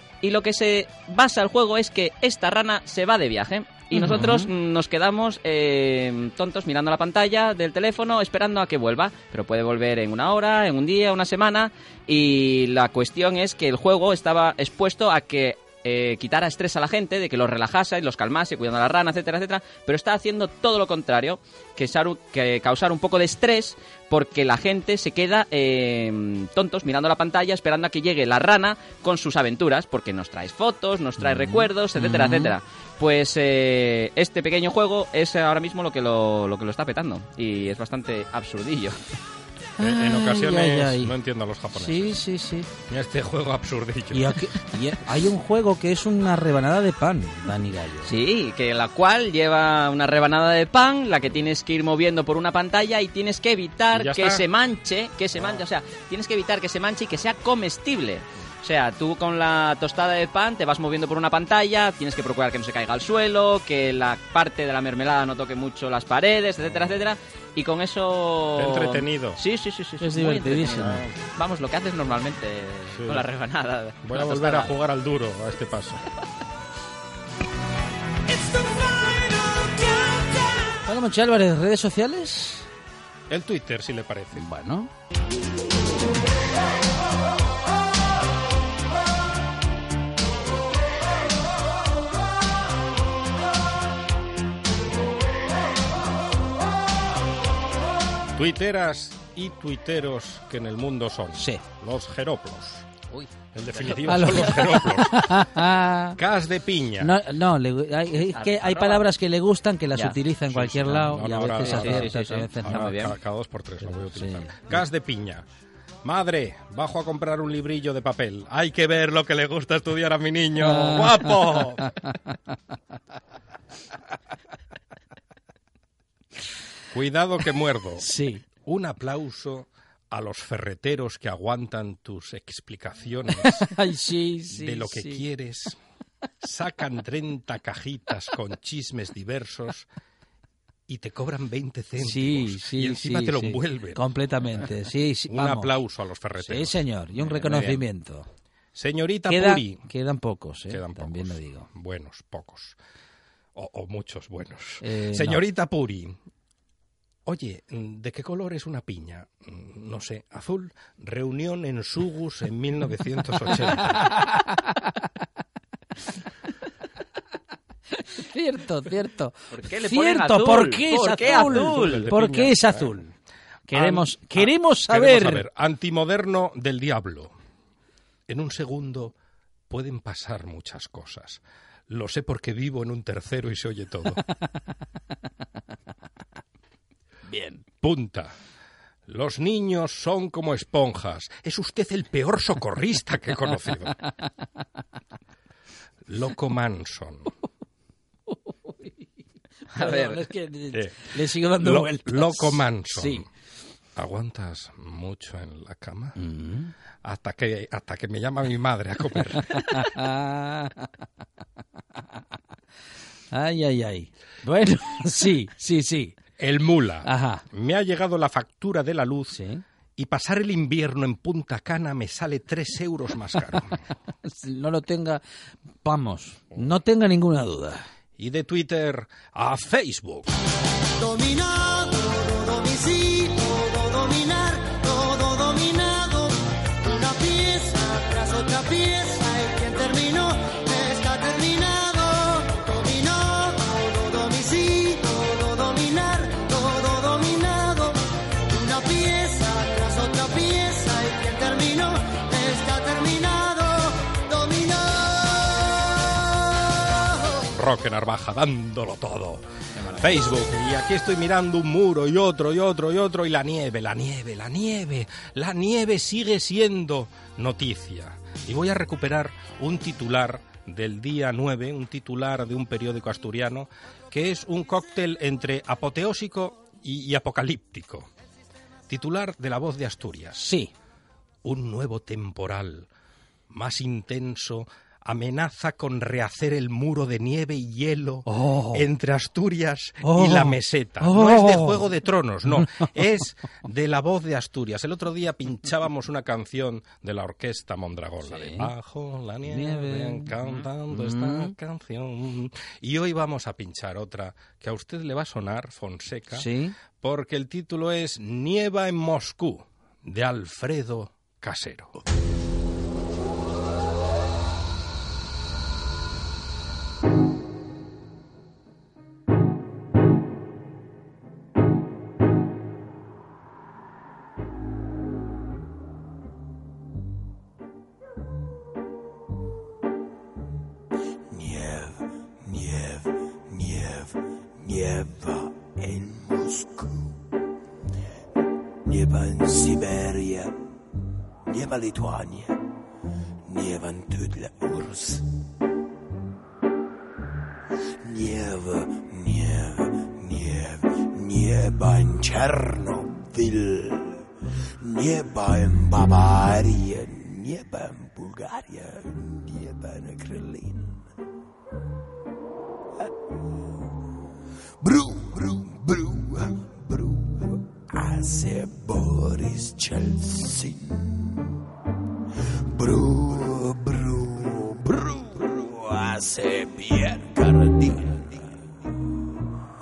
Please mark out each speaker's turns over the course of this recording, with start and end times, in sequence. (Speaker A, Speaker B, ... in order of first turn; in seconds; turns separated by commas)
Speaker A: 0.2-39.0, Speaker B: 3.9-4.5, Speaker B: 31.2-32.5, Speaker B: 39.8-41.1, Speaker C: 39.8-42.2, Speaker B: 41.7-42.7, Speaker C: 42.9-44.4, Speaker B: 44.1-48.1, Speaker A: 48.0-74.7, Speaker C: 53.9-54.5, Speaker C: 68.6-69.4, Speaker B: 70.0-71.0, Speaker C: 72.9-73.3, Speaker C: 74.0-76.0, Speaker B: 80.8-82.7, Speaker C: 83.3-84.5, Speaker B: 84.3-84.9, Speaker C: 98.3-102.9, Speaker B: 101.4-101.6, Speaker C: 103.5-105.5, Speaker B: 104.1-106.2, Speaker C: 106.2-107.2, Speaker B: 107.0-113.0, Speaker A: 108.3-109.0, Speaker C: 110.5-115.5, Speaker A: 111.6-113.1, Speaker B: 113.8-114.8, Speaker C: 116.0-121.9, Speaker B: 120.6-122.4, Speaker C: 126.9-133.7, Speaker B: 128.0-128.4, Speaker B: 133.4-135.2, Speaker C: 134.5-135.8, Speaker C: 136.4-139.9, Speaker C: 140.9-144.1, Speaker B: 142.0-145.7, Speaker C: 145.3-147.8, Speaker B: 146.4-148.3, Speaker C: 148.7-149.9, Speaker B: 149.3-151.7, Speaker C: 150.7-152.8, Speaker C: 153.6-156.2, Speaker B: 154.8-155.4, Speaker C: 157.3-164.2, Speaker B: 163.8-165.0, Speaker B: 167.9-173.1, Speaker A: 169.5-172.1, Speaker C: 171.2-173.0, Speaker B: 173.7-175.4, Speaker C: 173.7-177.3, Speaker C: 178.3-179.1, Speaker C: 179.7-184.2, Speaker B: 187.3-187.6, Speaker C: 187.8-188.3, Speaker C: 189.1-194.1, Speaker C: 196.1-197.3, Speaker B: 198.7-198.9, Speaker B: 199.7-203.2, Speaker A: 199.8-200.2, Speaker C: 200.7-203.3, Speaker C: 203.9-206.2, Speaker B: 206.2-206.7, Speaker C: 207.0-209.9, Speaker B: 209.4-210.9, Speaker B: 213.3-216.2, Speaker C: 216.4-219.4, Speaker B: 217.1-217.4, Speaker B: 219.3-219.6, Speaker C: 220.0-223.8, Speaker B: 224.2-225.2, Speaker B: 225.8-227.9, Speaker C: 228.2-230.3, Speaker D: 231.0-257.0, Speaker C: 257.5-278.1, Speaker A: 259.8-260.1, Speaker C: 278.9-280.5, Speaker B: 280.4-280.7, Speaker C: 281.4-282.9, Speaker C: 283.5-312.0, Speaker B: 288.3-288.9, Speaker B: 290.0-291.9, Speaker B: 292.5-292.9, Speaker B: 298.2-298.7, Speaker B: 299.4-301.6, Speaker B: 306.3-306.7, Speaker E: 331.3-337.3, Speaker E: 338.9-340.6, Speaker E: 341.5-342.6, Speaker E: 343.5-345.3, Speaker E: 348.0-354.2, Speaker E: 354.8-361.1, Speaker E: 364.8-371.5, Speaker E: 372.7-379.1